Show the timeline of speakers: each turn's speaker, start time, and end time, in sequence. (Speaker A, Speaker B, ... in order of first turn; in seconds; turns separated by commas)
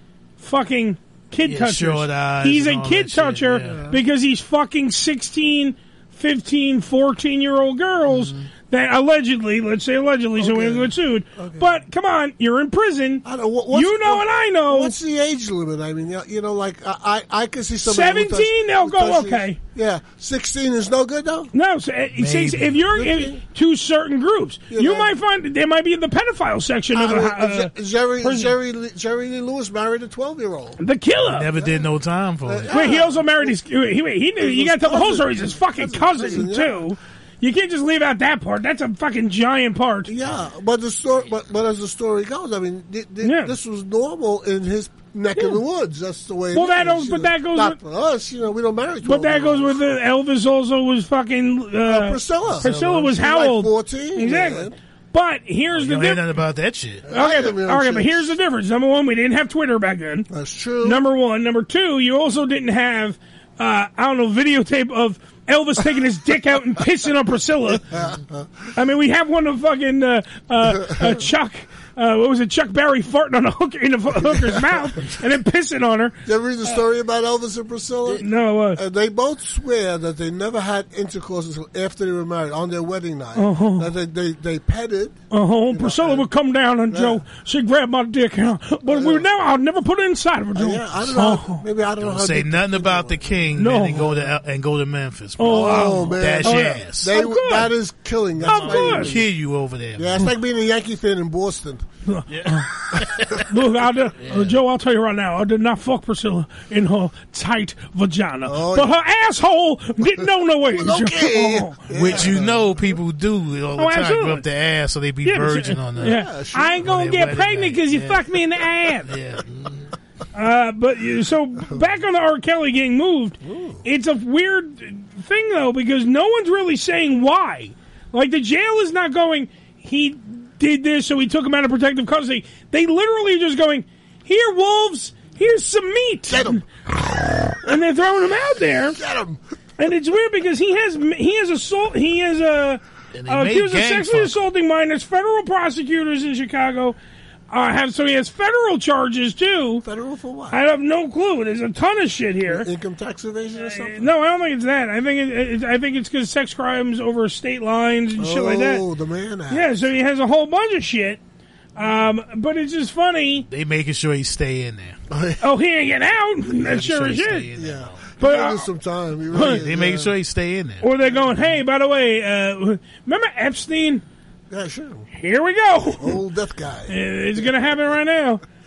Speaker A: 0.4-14.9, Speaker B: 1.4-3.8, Speaker C: 3.6-4.0, Speaker B: 8.1-8.5, Speaker C: 10.4-11.8, Speaker C: 13.2-21.5, Speaker A: 17.8-19.6, Speaker A: 21.5-28.5, Speaker B: 22.2-22.8, Speaker C: 22.9-23.4, Speaker C: 24.7-25.1, Speaker C: 26.9-30.8, Speaker A: 30.8-31.5, Speaker B: 31.2-32.8, Speaker C: 31.5-31.9, Speaker C: 32.4-33.5, Speaker A: 32.7-40.1, Speaker C: 34.4-36.9, Speaker C: 40.1-49.8, Speaker A: 43.2-43.5, Speaker A: 46.5-47.8, Speaker A: 49.0-56.2, Speaker C: 51.8-54.8, Speaker B: 52.5-53.1, Speaker B: 55.7-57.1, Speaker C: 57.1-58.4, Speaker A: 57.1-60.3, Speaker C: 60.3-61.0, Speaker A: 60.8-67.8, Speaker C: 67.7-68.7, Speaker A: 68.8-76.8, Speaker C: 70.6-71.3, Speaker C: 74.2-75.0, Speaker C: 76.2-85.2, Speaker A: 78.1-78.8, Speaker A: 83.3-83.9, Speaker A: 85.3-91.6, Speaker C: 85.7-86.3, Speaker C: 86.9-87.2, Speaker C: 88.9-89.3, Speaker C: 90.5-94.3, Speaker B: 92.0-97.2, Speaker A: 93.6-94.2, Speaker A: 95.4-97.7, Speaker C: 95.4-99.3, Speaker B: 98.4-100.3, Speaker A: 98.4-99.2, Speaker C: 100.0-101.8, Speaker A: 102.1-102.7, Speaker B: 102.3-103.5, Speaker A: 103.5-112.3, Speaker B: 104.2-104.5, Speaker C: 108.5-109.0, Speaker C: 110.7-113.0, Speaker B: 111.9-116.2, Speaker A: 113.8-114.5, Speaker A: 115.2-119.1, Speaker C: 116.0-116.9, Speaker B: 116.8-118.2, Speaker B: 119.1-119.9, Speaker A: 120.3-136.6, Speaker C: 123.4-123.8, Speaker C: 136.3-137.6, Speaker A: 137.6-139.0, Speaker C: 138.9-139.4, Speaker A: 139.8-147.0, Speaker B: 143.2-144.4, Speaker A: 147.5-149.8, Speaker C: 149.8-150.6, Speaker A: 150.5-152.7, Speaker C: 152.4-154.1, Speaker A: 153.6-158.8, Speaker C: 158.2-159.7, Speaker A: 159.5-161.2, Speaker A: 161.8-163.5, Speaker B: 163.5-165.0, Speaker C: 165.1-165.4, Speaker A: 165.4-167.5, Speaker B: 166.5-168.0, Speaker C: 167.5-170.1, Speaker A: 168.2-168.7, Speaker A: 169.3-169.6, Speaker B: 169.4-170.9, Speaker A: 170.8-174.0, Speaker C: 174.5-175.1, Speaker A: 175.1-176.2, Speaker C: 176.0-177.5, Speaker A: 176.9-178.4